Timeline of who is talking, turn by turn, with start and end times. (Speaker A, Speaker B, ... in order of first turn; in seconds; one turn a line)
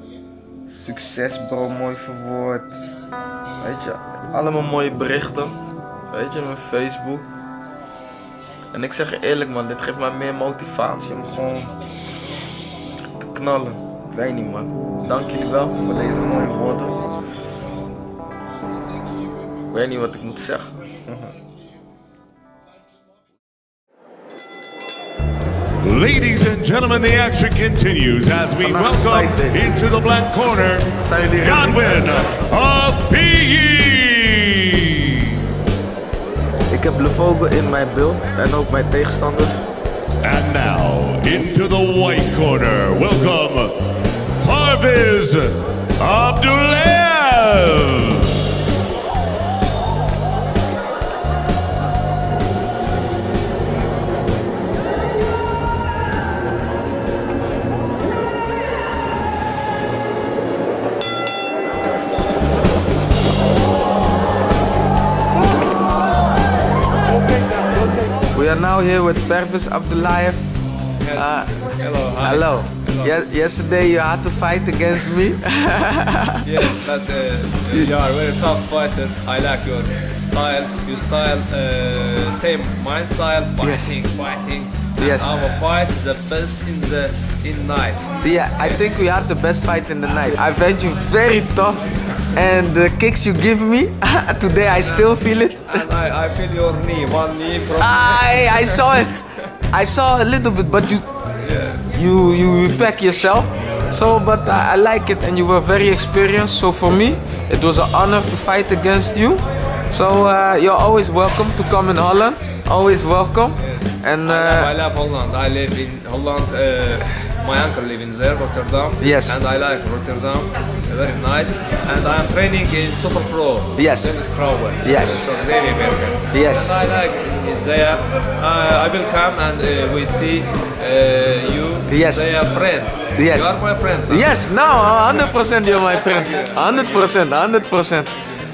Speaker A: 0.7-2.8
Speaker A: 3.6-5.6
Speaker A: 6.1-7.3
Speaker A: 8.7-11.7
Speaker A: 13.2-17.1
Speaker A: 19.7-21.3
Speaker B: 25.8-30.9
Speaker A: 28.6-29.6
Speaker A: 31.0-32.0
Speaker B: 31.4-34.8
Speaker A: 36.7-39.6
Speaker B: 40.2-43.7
Speaker B: 44.4-48.3
Speaker A: 68.3-70.5
Speaker C: 71.0-73.2
Speaker A: 71.1-71.5
Speaker A: 72.2-76.7
Speaker C: 76.4-88.9
Speaker A: 83.6-83.9
Speaker A: 85.0-85.3
Speaker A: 88.2-91.8
Speaker A: 92.3-95.8
Speaker C: 94.7-98.9
Speaker A: 97.8-101.1
Speaker C: 101.4-101.8
Speaker A: 101.9-114.7
Speaker C: 113.6-134.3
Speaker A: 119.0-119.4
Speaker A: 123.8-125.4
Speaker A: 126.3-126.7
Speaker A: 131.9-132.3
Speaker A: 133.1-138.1
Speaker C: 135.8-137.2